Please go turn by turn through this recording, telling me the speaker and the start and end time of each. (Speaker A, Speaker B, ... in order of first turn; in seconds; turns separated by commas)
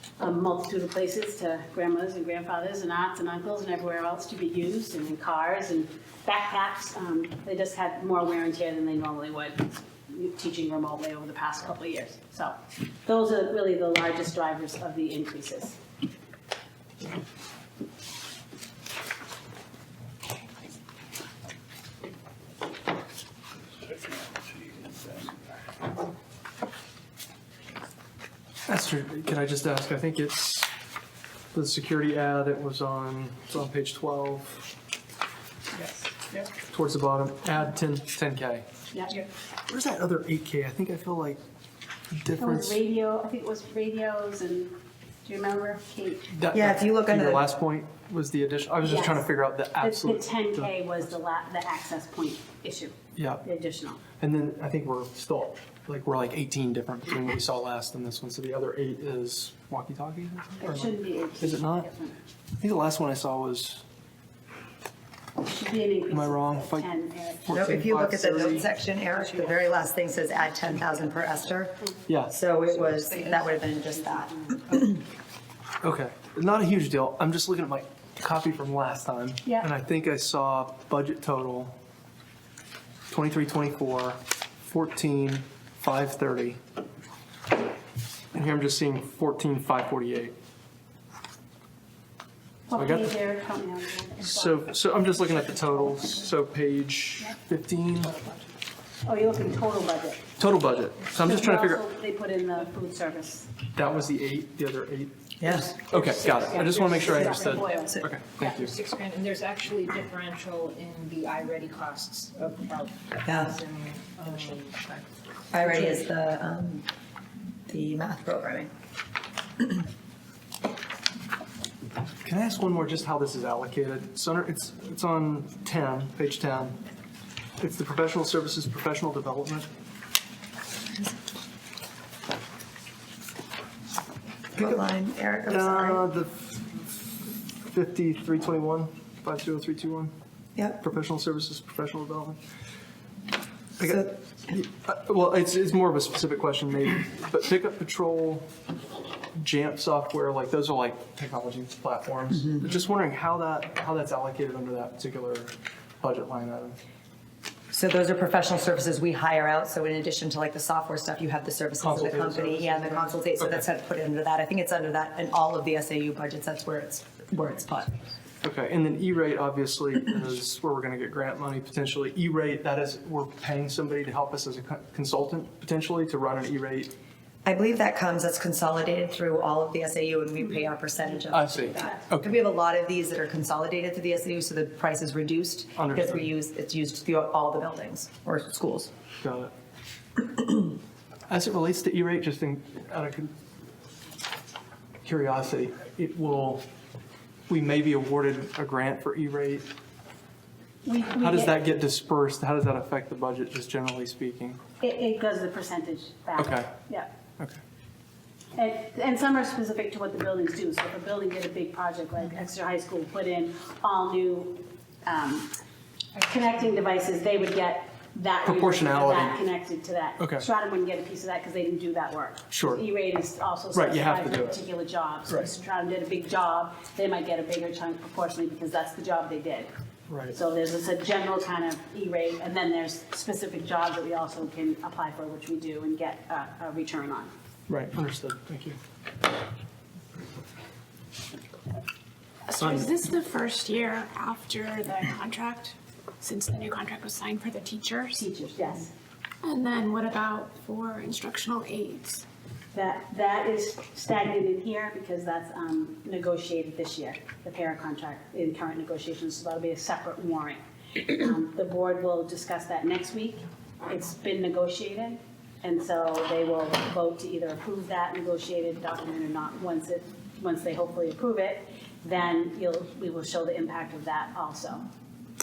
Speaker A: 0.2-15.8, Speaker B: 28.7-30.7, Speaker B: 31.5-34.7, Speaker B: 36.6-38.7, Speaker A: 38.9-39.2, Speaker B: 39.7-41.4, Speaker B: 42.1-42.8, Speaker A: 42.4-46.3, Speaker B: 46.3-50.7, Speaker C: 46.5-47.4, Speaker A: 48.8-54.0, Speaker B: 53.2-53.5, Speaker B: 54.2-61.9, Speaker A: 60.6-62.2, Speaker B: 62.6-63.8, Speaker A: 65.4-67.8, Speaker B: 66.1-66.9, Speaker B: 67.4-68.7, Speaker C: 67.5-75.0, Speaker B: 72.1-72.4, Speaker D: 72.9-73.5, Speaker D: 74.2-74.6, Speaker B: 75.8-81.8, Speaker B: 83.1-86.6, Speaker B: 88.3-90.3, Speaker A: 92.7-94.5, Speaker B: 92.8-93.1, Speaker B: 94.2-98.2, Speaker A: 99.0-100.2, Speaker B: 100.4-101.8, Speaker A: 101.2-103.5, Speaker B: 103.7-105.2, Speaker C: 105.4-105.7, Speaker A: 105.5-108.6, Speaker B: 105.9-108.7, Speaker D: 105.9-107.8, Speaker D: 108.4-115.6, Speaker C: 113.2-113.5, Speaker C: 115.5-116.9, Speaker C: 117.7-118.7, Speaker B: 122.2-126.8, Speaker B: 127.6-129.7, Speaker C: 134.6-136.0, Speaker B: 135.5-140.1, Speaker C: 140.6-140.8, Speaker B: 140.8-142.4, Speaker B: 143.8-148.5, Speaker C: 143.8-144.1, Speaker B: 149.4-156.8, Speaker C: 157.7-168.0, Speaker B: 161.8-163.6, Speaker B: 168.4-176.9, Speaker C: 177.4-188.9, Speaker B: 181.3-182.3, Speaker B: 185.8-186.3, Speaker B: 189.2-189.5, Speaker B: 191.3-193.3, Speaker B: 195.0-196.6, Speaker B: 197.5-199.7, Speaker A: 200.8-201.7, Speaker B: 201.2-204.6, Speaker A: 204.8-207.1, Speaker B: 206.4-206.7, Speaker A: 208.6-215.5, Speaker A: 216.2-229.7, Speaker B: 218.4-219.4, Speaker B: 220.2-220.5, Speaker B: 222.5-222.8, Speaker B: 223.7-224.6, Speaker B: 230.1-230.4, Speaker A: 230.3-237.3, Speaker B: 237.7-238.8, Speaker E: 242.5-248.2, Speaker B: 242.6-242.9, Speaker A: 248.1-248.9, Speaker E: 249.4-252.2, Speaker A: 252.7-274.9